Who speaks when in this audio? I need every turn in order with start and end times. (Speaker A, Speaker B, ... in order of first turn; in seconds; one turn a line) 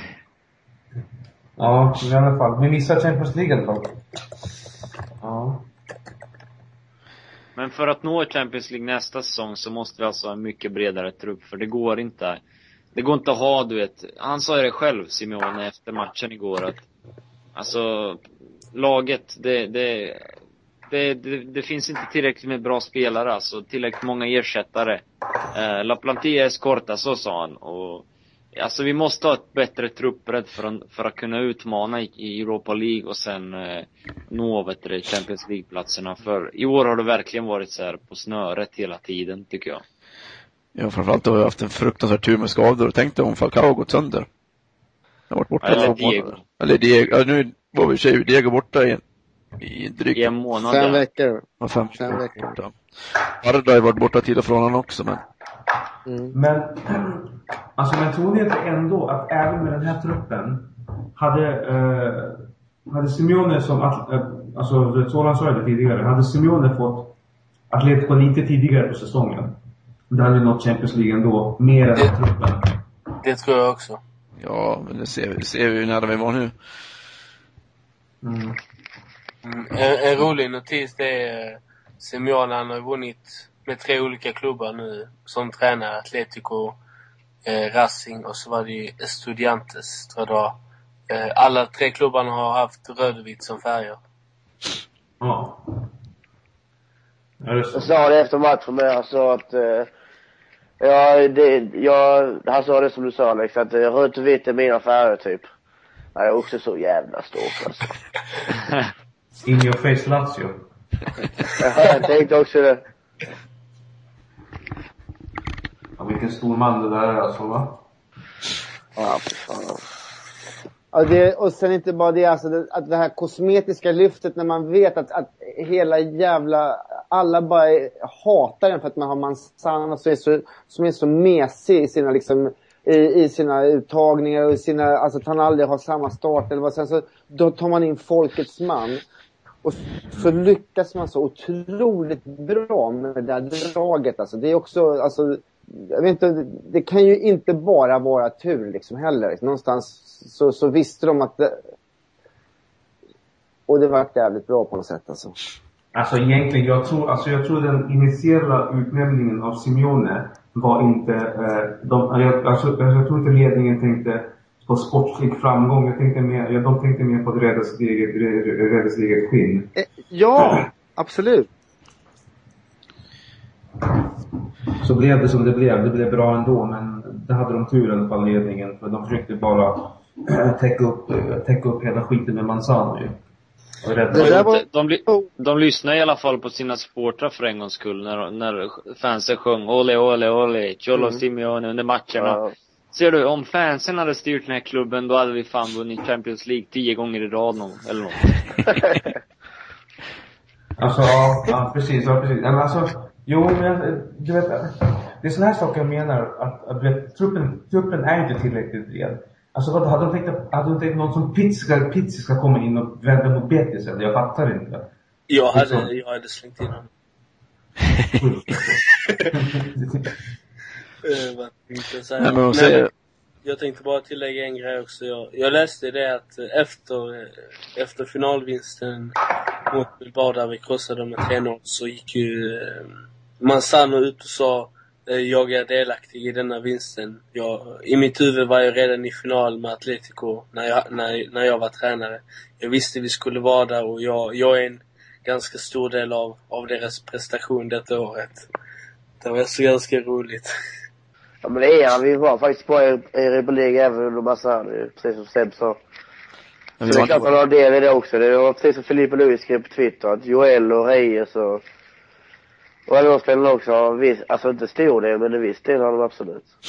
Speaker A: 1.6-4.0
Speaker A: 5.2-5.7
Speaker B: 7.5-12.4
Speaker B: 12.9-16.9
Speaker B: 17.5-18.2
Speaker B: 18.7-20.3
Speaker B: 20.9-39.8
Speaker C: 40.7-44.3
Speaker C: 45.3-49.0
Speaker B: 45.6-46.4
Speaker C: 49.6-50.3
Speaker B: 50.1-51.0
Speaker D: 50.6-51.4
Speaker C: 51.6-55.2
Speaker D: 52.0-52.6
Speaker D: 56.0-56.3
Speaker A: 56.3-67.1
Speaker A: 67.7-69.6
Speaker A: 70.1-72.8
Speaker E: 73.2-74.0
Speaker C: 74.4-76.5
Speaker A: 78.2-78.6
Speaker E: 79.4-86.8
Speaker E: 87.4-90.6
Speaker E: 91.1-94.0
Speaker A: 95.2-95.9
Speaker A: 97.4-97.9
Speaker F: 97.7-99.9
Speaker F: 100.8-105.5
Speaker F: 106.1-107.9
Speaker A: 109.4-110.6
Speaker F: 111.6-112.8
Speaker A: 116.0-117.8
Speaker F: 119.0-119.8
Speaker D: 120.9-139.0
Speaker D: 139.6-151.6
Speaker D: 153.7-155.3
Speaker A: 155.9-169.7
Speaker D: 169.8-171.5
Speaker A: 170.4-170.6
Speaker A: 174.8-183.2
Speaker A: 183.8-184.4
Speaker D: 184.1-185.3
Speaker B: 184.2-192.4
Speaker F: 192.2-192.5
Speaker B: 192.9-198.7
Speaker A: 200.8-214.9
Speaker E: 215.3-216.9
Speaker A: 215.5-215.9
Speaker C: 217.9-218.2
Speaker A: 218.2-218.7
Speaker A: 219.3-220.1
Speaker E: 221.0-222.8
Speaker C: 222.2-222.9
Speaker E: 223.4-229.2
Speaker E: 229.7-248.4
Speaker E: 249.2-250.5
Speaker F: 251.4-255.8
Speaker C: 256.8-257.3
Speaker F: 256.9-261.6
Speaker F: 262.9-266.5